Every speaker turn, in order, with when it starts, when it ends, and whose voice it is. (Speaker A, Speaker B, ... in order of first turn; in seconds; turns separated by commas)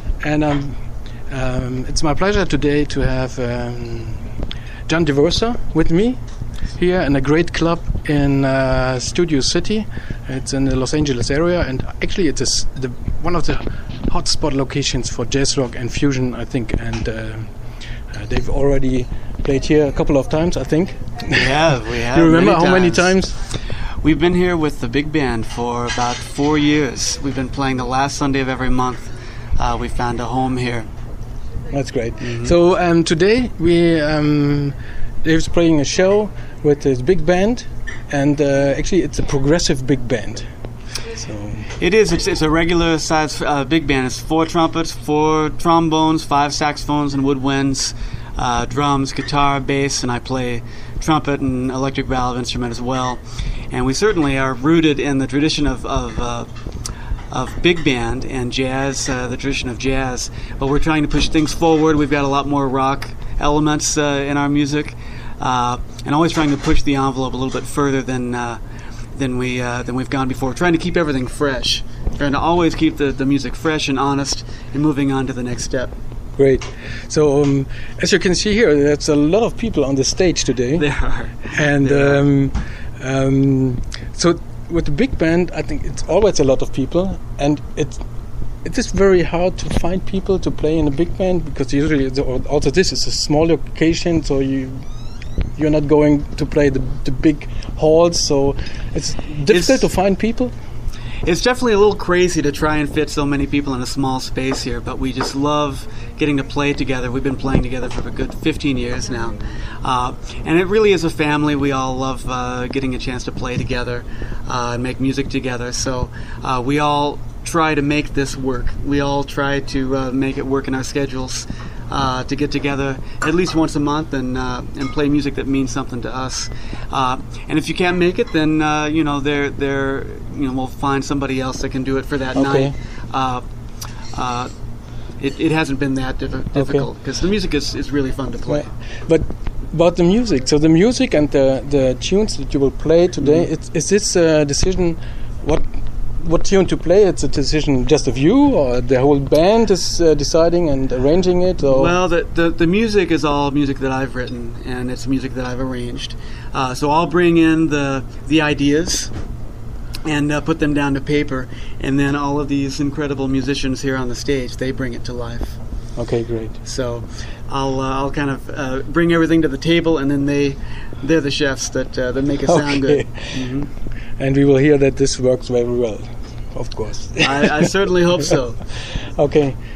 Speaker A: 0.2-4.3, Speaker A: 4.9-6.2, Speaker A: 6.8-17.6, Speaker A: 18.1-23.3, Speaker B: 21.3-23.2, Speaker B: 24.0-30.9, Speaker A: 31.7-40.5, Speaker B: 32.2-32.6, Speaker A: 41.0-41.7, Speaker B: 41.8-56.5, Speaker B: 57.3-68.6, Speaker B: 69.1-75.9, Speaker A: 76.4-80.8, Speaker B: 80.8-82.2, Speaker A: 81.5-88.0, Speaker A: 88.6-94.8, Speaker A: 95.6-100.5, Speaker B: 99.5-99.9, Speaker B: 101.2-133.4, Speaker A: 132.3-132.7, Speaker B: 134.1-134.5, Speaker B: 135.2-138.7, Speaker A: 136.6-136.9, Speaker A: 138.5-145.7, Speaker B: 143.2-143.5, Speaker A: 146.2-152.0, Speaker B: 151.7-159.1, Speaker B: 160.0-165.6, Speaker A: 166.0-166.6, Speaker B: 166.6-173.7, Speaker A: 172.5-173.6, Speaker A: 174.2-177.7, Speaker B: 177.2-178.7, Speaker A: 178.9-179.6